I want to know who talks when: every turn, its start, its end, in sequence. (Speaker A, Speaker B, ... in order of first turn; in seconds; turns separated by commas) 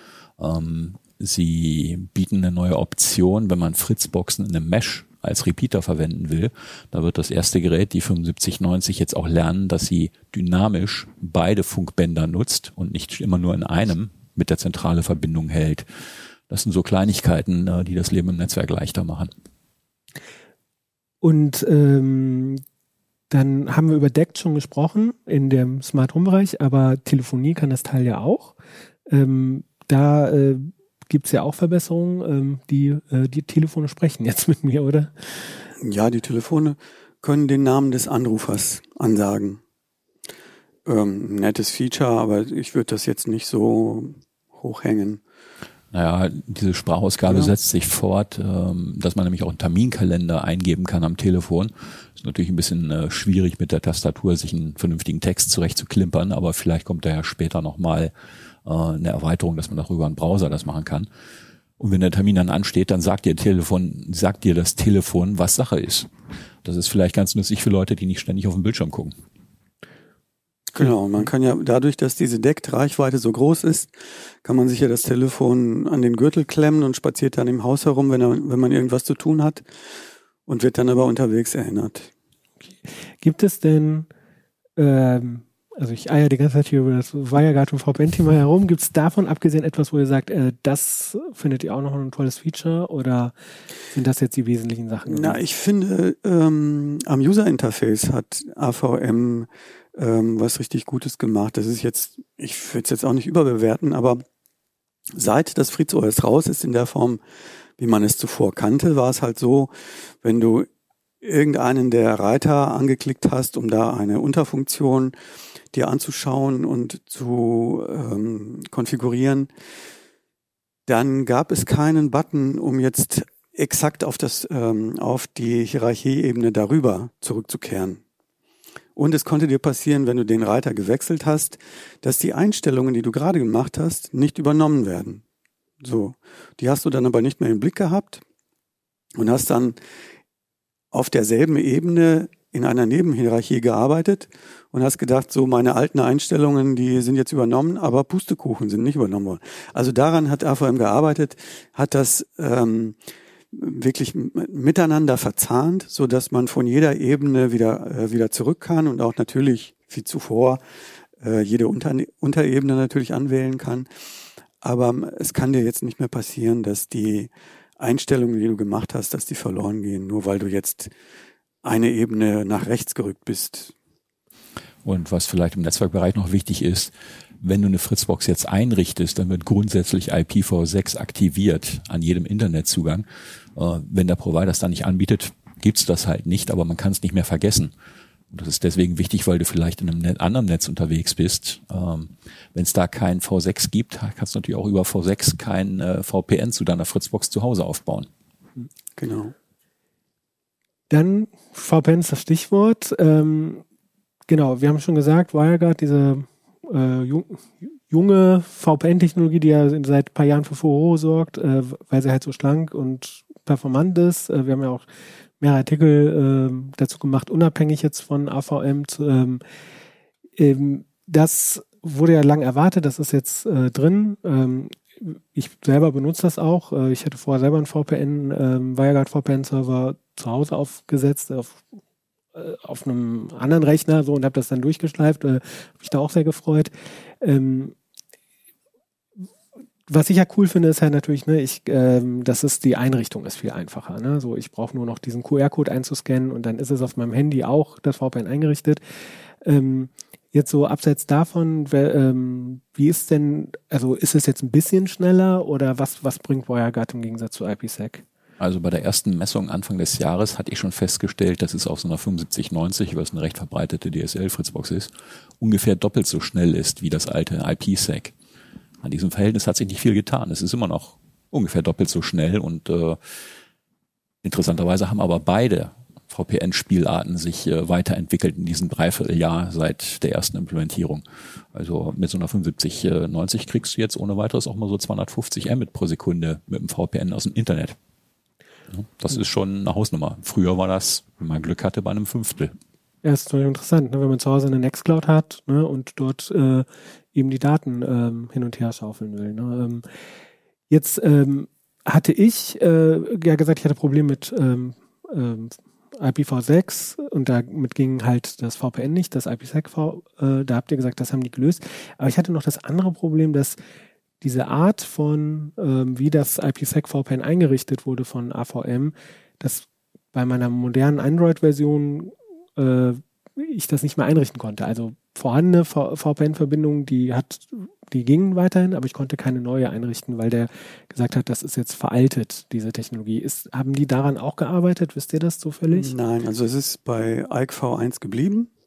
Speaker A: 0.4-15.8, Speaker A: 16.5-19.3, Speaker B: 21.2-22.6, Speaker B: 23.3-28.5, Speaker B: 29.1-35.6, Speaker C: 35.8-39.6, Speaker C: 40.9-45.2, Speaker A: 45.9-58.1, Speaker A: 58.6-61.1, Speaker A: 61.8-66.1, Speaker A: 66.6-69.1, Speaker C: 70.7-73.9, Speaker C: 74.4-79.6, Speaker C: 80.5-82.1, Speaker B: 83.2-84.1, Speaker B: 84.8-93.3, Speaker B: 93.9-95.4, Speaker C: 95.1-104.2, Speaker C: 105.1-107.2, Speaker C: 107.8-110.7, Speaker C: 111.2-115.1, Speaker C: 115.7-119.5, Speaker C: 120.9-128.0, Speaker C: 128.9-135.2, Speaker C: 135.8-138.2, Speaker C: 139.2-139.8, Speaker C: 140.9-153.0, Speaker C: 153.5-160.6, Speaker C: 161.2-163.9, Speaker C: 164.6-170.9, Speaker C: 171.6-173.7, Speaker A: 174.8-183.0, Speaker A: 183.6-187.7, Speaker A: 188.3-198.1, Speaker C: 198.9-199.3, Speaker B: 200.9-203.6, Speaker B: 204.3-214.9, Speaker B: 215.4-219.4, Speaker B: 220.4-231.6, Speaker B: 232.3-236.7, Speaker B: 237.2-237.7, Speaker B: 239.9-248.8, Speaker B: 249.4-258.0, Speaker A: 258.4-268.1, Speaker A: 268.8-273.0, Speaker A: 274.2-287.8, Speaker A: 288.7-292.5, Speaker B: 293.0-299.8, Speaker B: 300.7-313.6, Speaker B: 314.2-335.9, Speaker C: 335.7-338.5